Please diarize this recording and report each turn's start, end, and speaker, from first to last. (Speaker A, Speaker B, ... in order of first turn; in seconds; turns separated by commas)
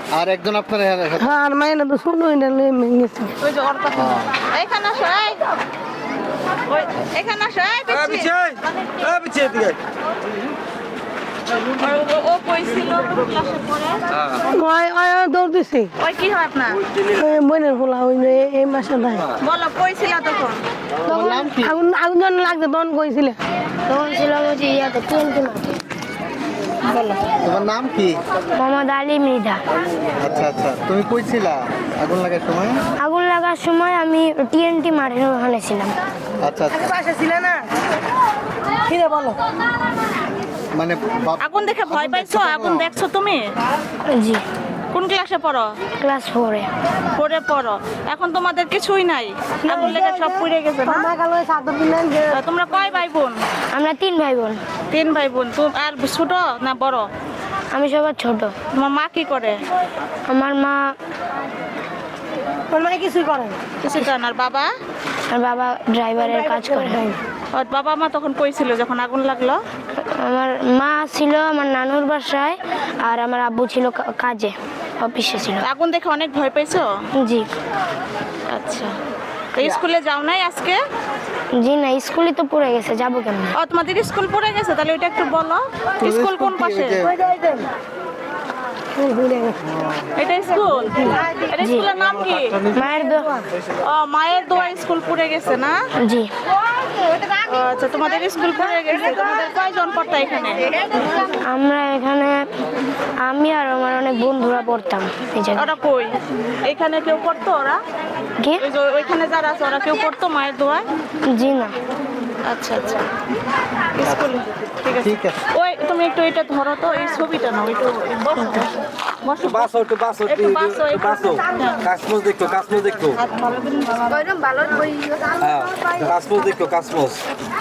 Speaker A: 0.1-1.3, Speaker B: 1.2-3.3, Speaker C: 3.4-5.4, Speaker A: 3.9-4.3, Speaker C: 6.7-8.3, Speaker D: 9.0-9.7, Speaker C: 11.8-14.0, Speaker B: 14.5-15.9, Speaker C: 16.0-16.8, Speaker B: 17.2-19.2, Speaker C: 19.4-20.6, Speaker B: 21.1-23.4, Speaker A: 21.1-21.7, Speaker E: 23.9-25.7, Speaker A: 27.0-28.2, Speaker E: 28.6-29.6, Speaker A: 30.2-32.8, Speaker E: 33.0-35.9, Speaker A: 36.4-36.9, Speaker B: 36.7-37.6, Speaker B: 38.9-39.4, Speaker A: 40.7-42.9, Speaker C: 41.4-43.4, Speaker E: 44.1-44.4, Speaker C: 44.9-45.7, Speaker E: 46.0-46.7, Speaker C: 47.2-51.1, Speaker B: 49.6-52.3, Speaker C: 52.3-53.4, Speaker E: 53.7-54.6, Speaker C: 54.9-57.1, Speaker E: 57.7-58.5, Speaker C: 58.7-59.5, Speaker E: 60.3-60.9, Speaker B: 62.7-63.5, Speaker C: 63.8-64.7, Speaker E: 65.3-67.0, Speaker B: 66.3-67.1, Speaker C: 67.5-69.6, Speaker E: 70.2-75.7, Speaker C: 75.6-76.9, Speaker E: 77.2-77.4, Speaker C: 78.5-78.9, Speaker C: 79.5-80.8, Speaker E: 81.6-83.6, Speaker C: 83.6-87.1, Speaker A: 86.0-87.1, Speaker B: 89.0-89.5, Speaker C: 90.2-92.6, Speaker E: 91.6-91.9, Speaker E: 92.7-93.3, Speaker C: 93.8-95.8, Speaker C: 97.4-100.7, Speaker E: 101.5-102.4, Speaker E: 103.2-105.7, Speaker C: 105.6-107.8, Speaker E: 108.4-108.7, Speaker C: 108.6-110.8, Speaker E: 111.3-111.7, Speaker C: 112.5-113.0, Speaker C: 114.0-121.8, Speaker A: 115.0-115.4, Speaker D: 121.1-121.4, Speaker D: 122.0-123.0, Speaker C: 123.2-124.8, Speaker D: 125.4-127.1